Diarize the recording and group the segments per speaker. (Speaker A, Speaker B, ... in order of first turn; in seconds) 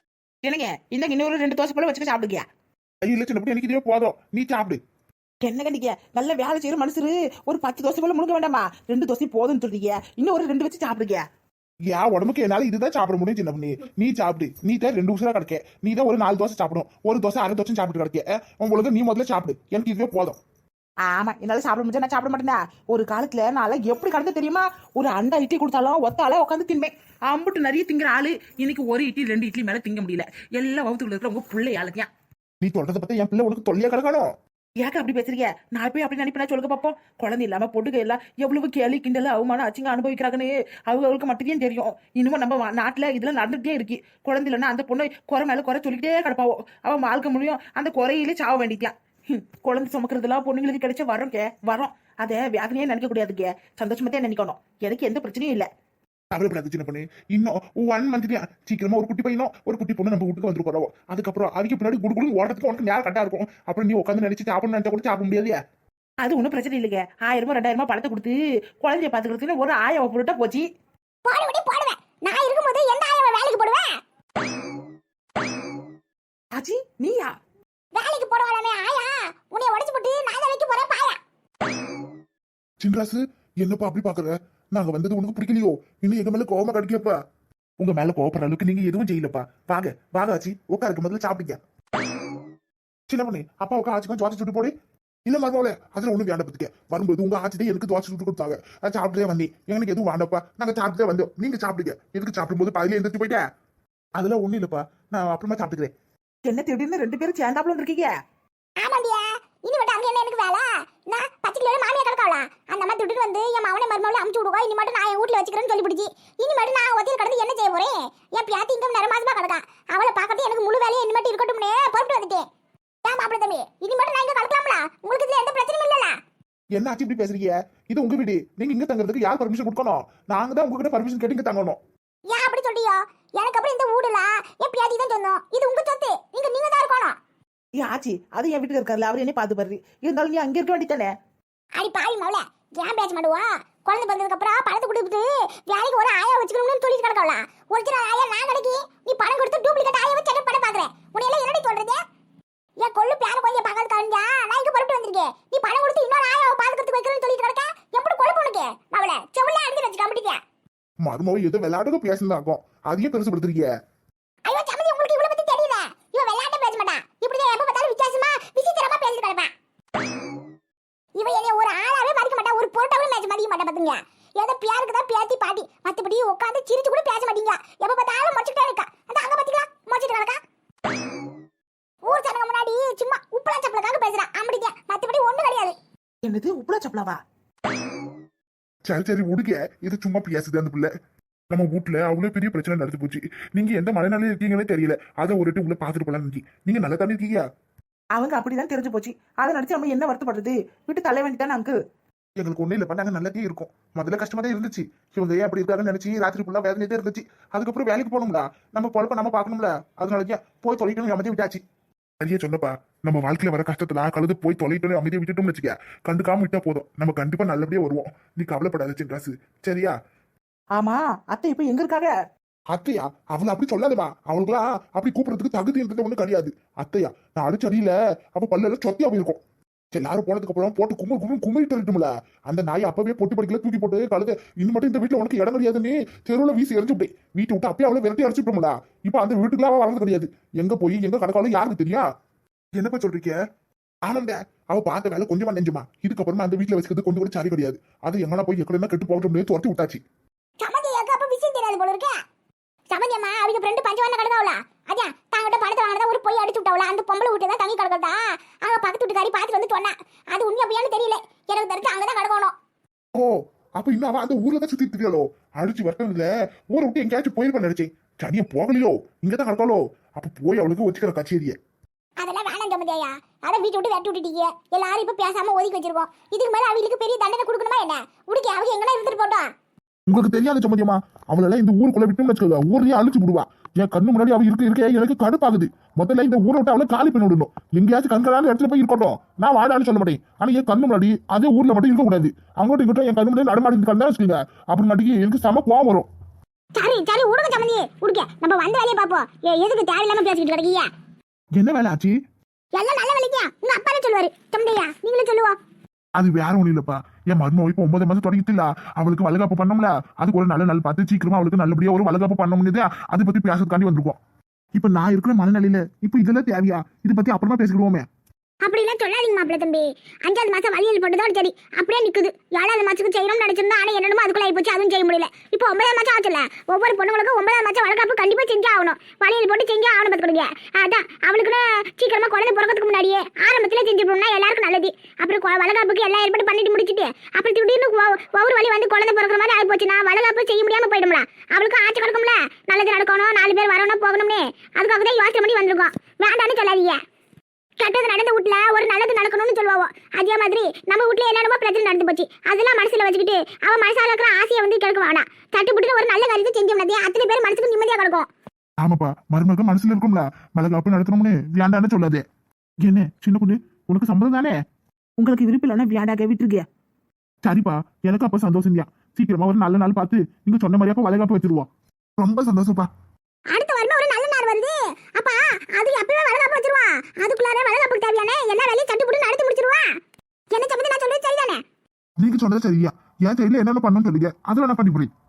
Speaker A: 0.4-2.5, 5.4-11.2, 21.0-32.1, 34.8-55.7, 66.2-70.7, 76.5-77.3, 106.5-108.1, 137.7-141.1, 186.2-187.2, 198.1-201.7, 220.8-222.1, 365.2-366.6
Speaker B: 3.0-4.8, 11.9-20.4, 32.6-34.3, 56.3-65.6, 82.8-87.2, 87.8-91.6, 93.1-94.7, 95.2-103.4, 104.2-105.9, 126.7-131.8, 161.0-163.7, 188.8-190.9, 191.5-197.4, 202.4-211.6, 212.2-219.9, 222.7-229.4, 229.9-242.0, 242.8-243.3, 244.1-250.0, 263.1-271.6, 280.1-296.1, 301.6-302.1, 306.2-314.2, 314.8-318.1, 358.8-362.2, 362.8-364.5, 365.2-366.6, 367.4-372.9, 382.2-385.1
Speaker C: 71.2-74.0, 77.9-81.2, 108.8-122.4, 123.0-126.2, 132.3-137.2, 141.8-152.0, 152.8-160.4, 164.4-169.5, 171.2-180.4, 182.0-185.7, 250.6-252.2, 252.9-262.5, 272.2-279.5, 296.7-300.9, 302.7-305.6, 318.6-347.0, 347.8-358.3, 373.5-379.9, 380.5-381.6